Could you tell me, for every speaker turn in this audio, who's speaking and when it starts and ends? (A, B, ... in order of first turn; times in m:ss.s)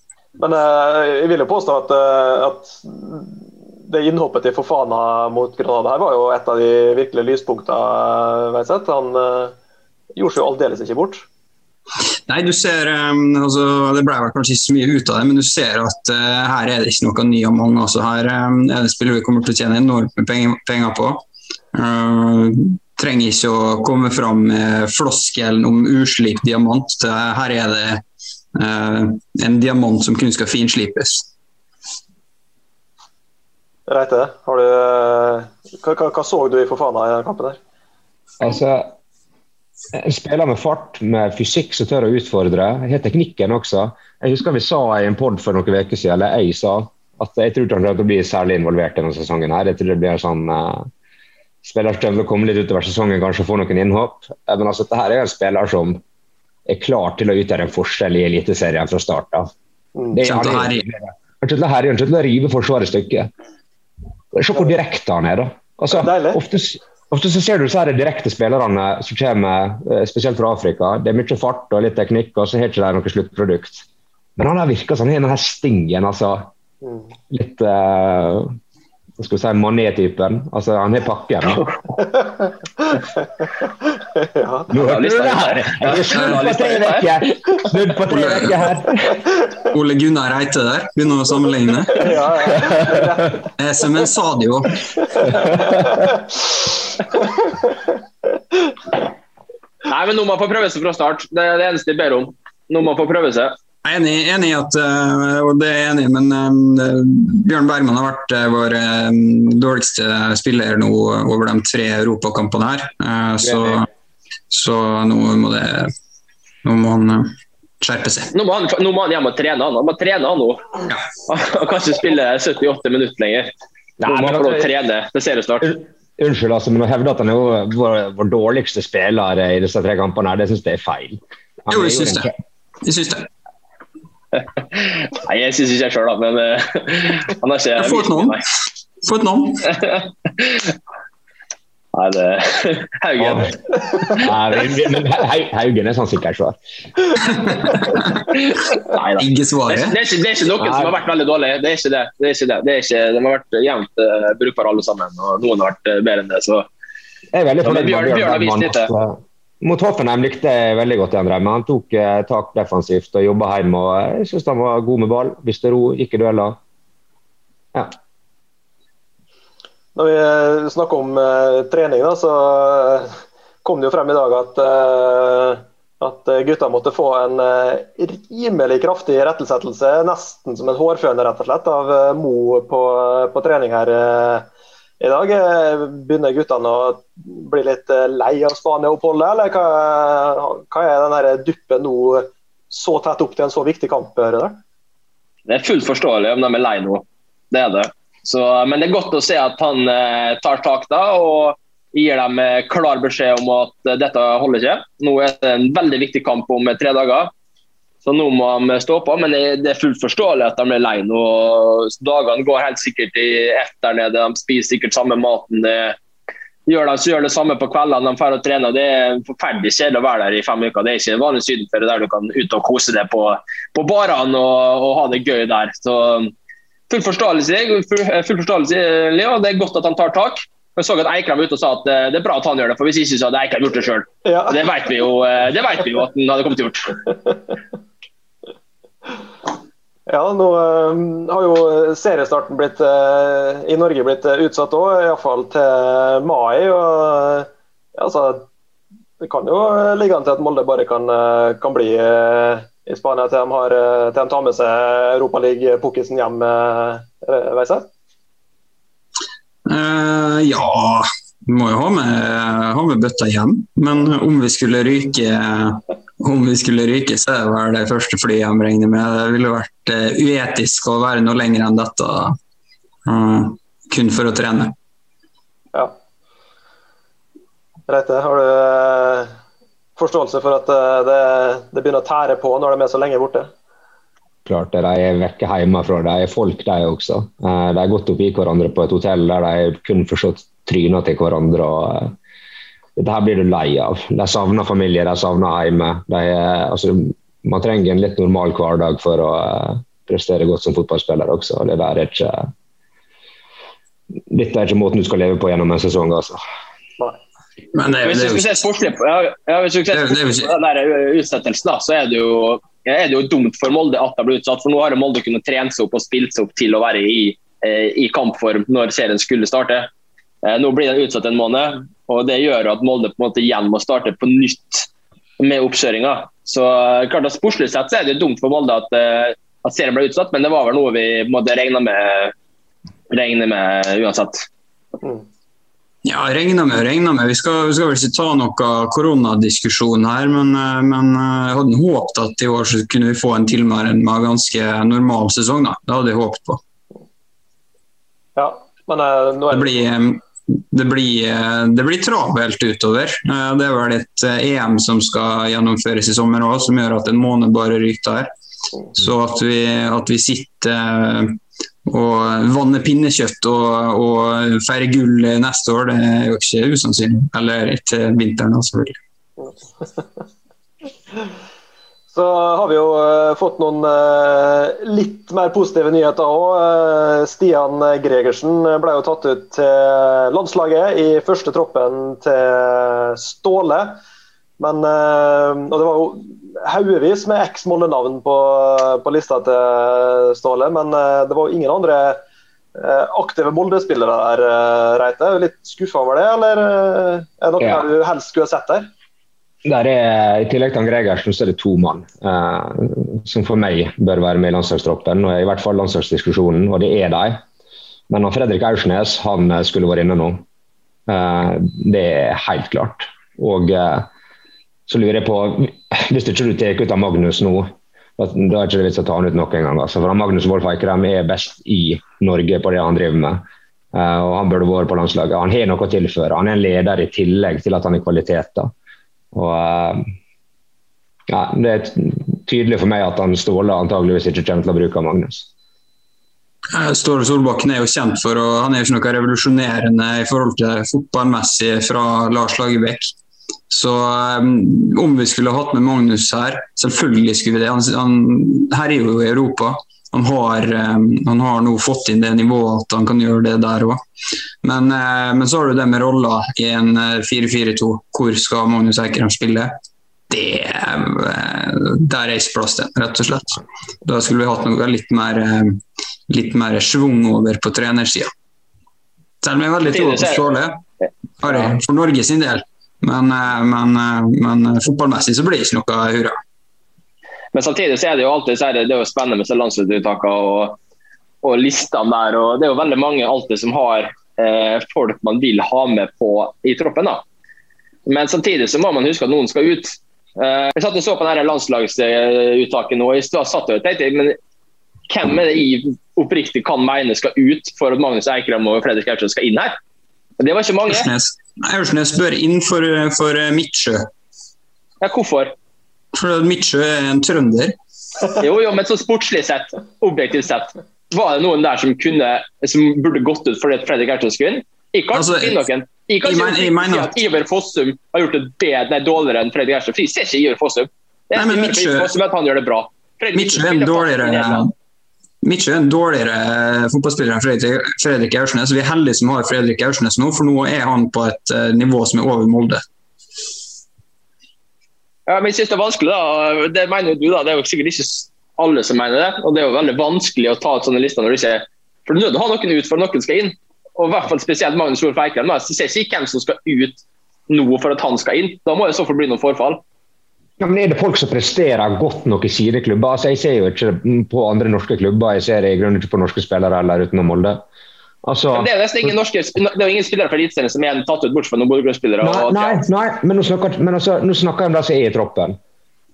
0:00.4-0:09.5 A
0:10.1-0:11.2 A
0:12.3-0:28.0 B
0:28.5-0:31.3 B
0:33.9-0:37.6 A
0:38.4-0:38.9 C
0:39.9-0:50.9 C
0:51.6-0:56.0 C
0:56.6-0:59.5 C
1:00.1-1:03.3 C
1:00.2-1:00.8 B
1:04.3-1:13.8 C
1:05.9-1:06.4 A
1:14.4-1:16.5 C
1:17.3-1:18.5 C
1:19.2-1:21.6 C
1:22.1-1:23.0 A
1:24.2-1:24.7 A
1:24.7-1:29.2 C
1:24.8-1:27.1 D
1:26.1-1:26.4 B
1:28.1-1:28.6 B
1:29.6-1:32.2 B
1:31.9-1:33.4 A
1:32.6-1:33.1 C
1:33.6-1:35.3 B
1:35.4-1:36.2 A
1:39.8-1:43.5 D
1:43.8-1:53.9 B
1:53.4-1:53.8 C
1:54.5-1:55.9 B
1:56.6-1:58.3 B
1:58.3-2:00.7 D
2:01.2-2:03.5 D
2:04.0-2:04.7 C
2:04.0-2:05.7 D
2:05.6-2:12.3 C
2:11.7-2:12.3 B
2:12.8-2:13.3 B
2:14.3-2:18.4 D
2:17.8-2:18.4 B
2:19.0-2:19.7 B
2:19.7-2:20.8 D
2:21.9-2:24.2 D
2:23.2-2:23.5 C
2:24.1-2:26.6 C
2:27.3-2:28.2 B
2:28.8-2:36.7 D
2:29.2-2:29.9 B
2:30.6-2:31.0 C
2:37.3-2:46.6 C
2:37.6-2:38.9 D
2:49.9-2:53.1 A
2:53.6-3:04.5 A
3:05.0-3:14.6 A
3:15.5-3:27.3 D
3:28.0-3:36.0 D
3:36.6-3:46.3 D
3:46.9-3:57.0 D
3:54.2-3:54.6 A
4:00.1-4:08.5 A
4:09.2-4:17.9 A
4:19.6-4:32.4 B
4:33.0-4:34.7 B
4:37.9-4:39.3 A
4:40.0-4:43.5 A
4:44.4-4:52.1 C
4:53.0-5:02.5 C
5:04.3-5:06.4 C
5:07.7-5:08.6 B
5:08.0-5:19.9 D
5:09.9-5:10.5 B
5:20.4-5:24.9 D
5:25.4-5:32.3 D
5:33.1-5:34.5 D
5:36.0-5:46.6 B
5:48.4-5:49.8 A
5:49.5-5:58.3 B
5:58.9-6:09.0 B
6:09.4-6:10.0 A
6:12.1-6:24.0 A
6:24.6-6:32.2 A
6:32.8-6:38.9 A
6:37.6-6:37.9 C
6:39.6-6:47.4 C
6:48.1-6:50.4 C
6:51.1-6:54.1 C
6:54.9-7:03.4 C
7:03.9-7:08.7 C
7:09.3-7:10.0 C
7:11.3-7:15.5 C
7:16.7-7:23.1 B
7:23.7-7:34.0 B
7:34.6-7:39.7 B
7:40.3-7:48.3 B
7:49.4-7:50.8 B
7:49.9-7:50.5 D
7:51.4-7:56.4 B
7:57.5-8:00.8 D
8:01.4-8:07.2 D
8:08.0-8:14.4 D
8:15.1-8:19.7 D
8:20.4-8:21.1 D
8:20.9-8:24.1 B
8:25.0-8:25.5 D
8:26.1-8:27.7 B
8:28.4-8:44.7 D
8:35.1-8:35.6 B
8:36.2-8:37.2 B
8:41.4-8:42.1 B
8:43.3-8:44.7 B
8:45.4-8:52.8 B
8:55.3-9:09.8 D
9:10.6-9:17.6 C
9:18.2-9:19.1 C
9:18.5-9:22.8 D
9:22.2-9:25.6 C